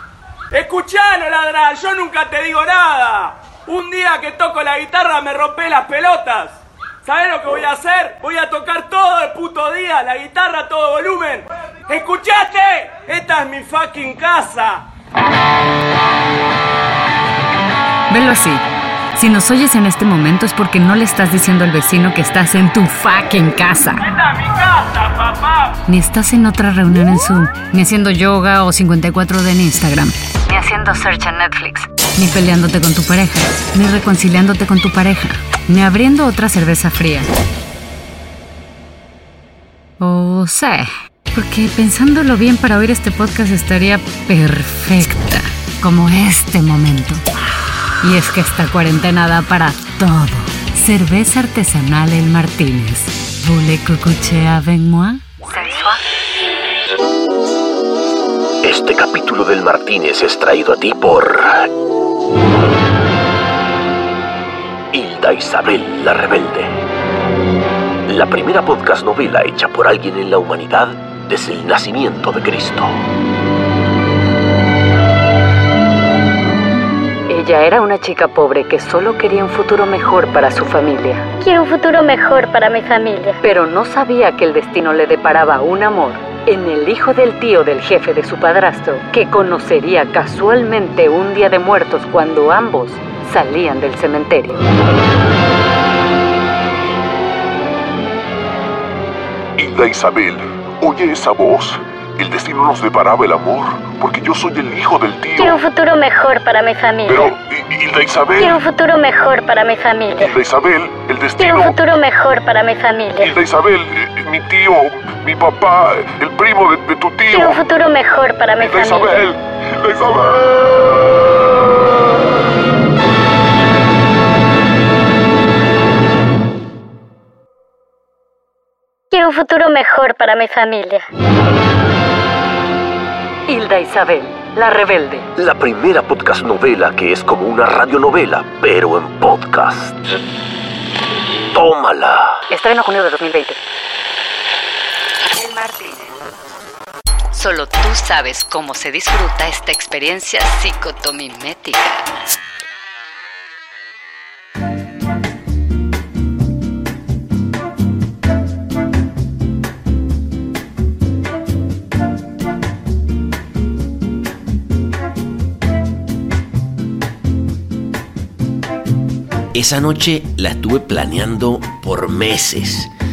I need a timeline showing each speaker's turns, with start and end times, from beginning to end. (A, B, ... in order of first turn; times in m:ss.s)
0:00.5-0:14.9 A
0:18.1-0:18.6 B
0:19.2-0:24.0 B
0:24.1-0:25.7 A
0:25.9-0:37.3 B
0:40.0-0:47.2 B
0:48.0-0:56.0 B
0:58.6-1:01.7 C
1:04.9-1:06.8 C
1:08.1-1:13.0 C
1:17.3-1:21.2 B
1:21.4-1:23.4 D
1:23.4-1:34.6 B
1:39.6-1:45.6 E
1:45.4-1:47.3 D
1:47.1-1:48.6 E
1:48.4-1:50.3 D
1:50.2-1:51.8 E
1:51.4-1:53.4 D
1:53.2-1:57.6 E
1:57.3-1:59.3 D
1:58.6-2:00.6 E
2:09.1-2:11.0 D
2:13.5-2:15.3 B
2:15.4-2:20.0 C
2:21.5-2:22.4 C
2:22.5-2:23.6 B
2:25.3-2:26.1 B
2:27.3-2:32.1 B
2:49.5-2:52.9 F